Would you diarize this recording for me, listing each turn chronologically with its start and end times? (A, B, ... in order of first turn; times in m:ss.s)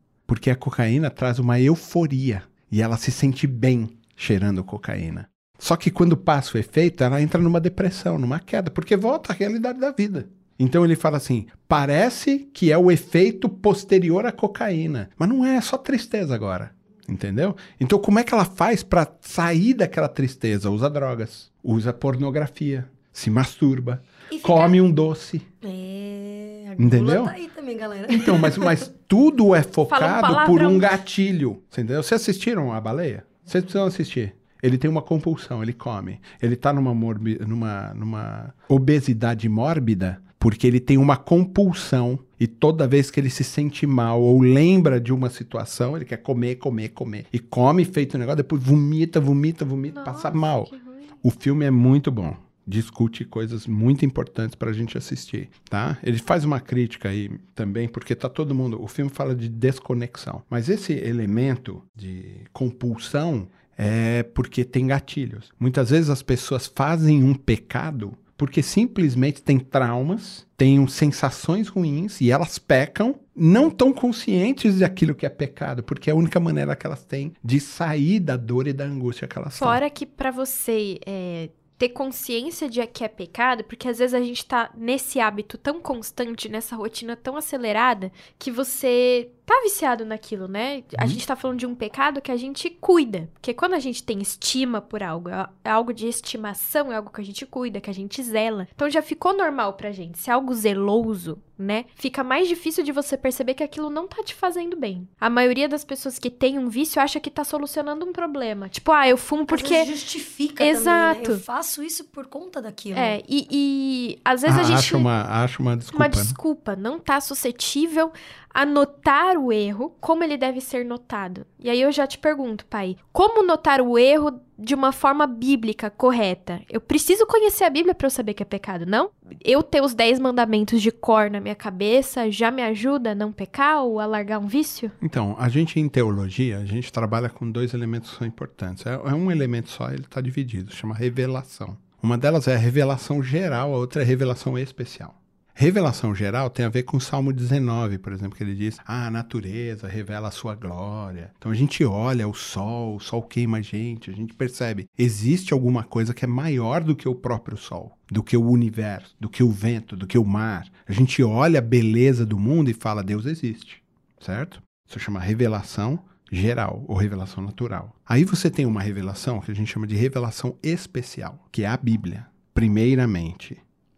0:00.3-0:25.4 A
0:24.4-0:24.7 B
0:25.6-0:28.8 B
0:26.8-0:27.3 A
0:28.1-1:19.8 A
0:29.9-0:30.9 C
0:49.9-0:51.1 C
1:19.6-1:49.9 C
1:49.5-1:53.2 B
1:50.6-1:51.4 C
1:52.9-1:55.1 C
1:54.4-1:56.4 A
1:55.9-2:14.9 C
2:15.0-2:53.6 A